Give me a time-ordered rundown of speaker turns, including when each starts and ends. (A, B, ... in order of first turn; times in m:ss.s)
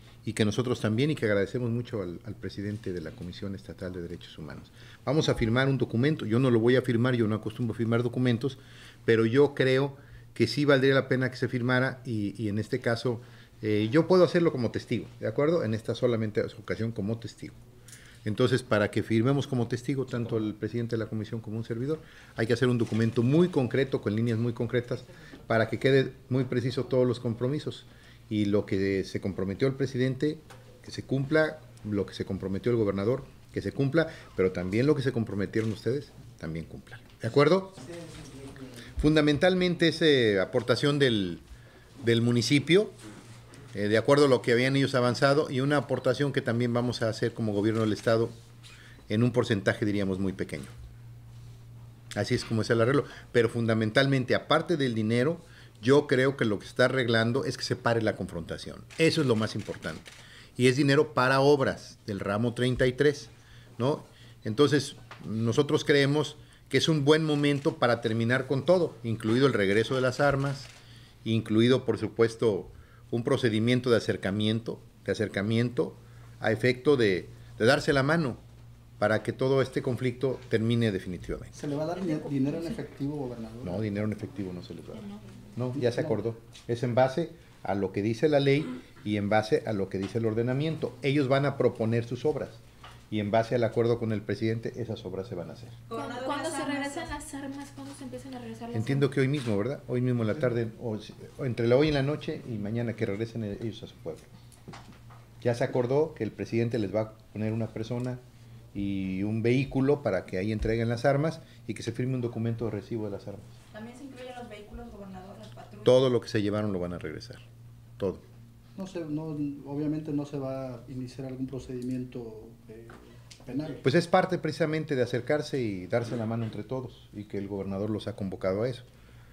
0:00.2-0:17.6 A
0:18.2-0:37.8 A
0:39.0-0:41.4 A
0:42.0-0:43.0 A
0:43.7-0:48.3 A
0:49.1-0:50.7 A
0:52.1-1:10.7 A
1:11.2-1:18.4 A
1:19.0-1:21.6 A
1:21.5-1:23.8 B
1:23.6-1:35.8 A
1:24.9-1:25.5 C
1:35.9-1:37.1 D
1:35.9-1:39.1 C
1:38.7-1:44.3 A
1:45.4-1:48.2 A
1:48.7-1:53.6 A
1:53.7-1:55.9 D
1:55.8-1:57.4 A
1:58.0-1:58.2 A
1:58.8-2:03.8 B
2:03.8-2:08.9 A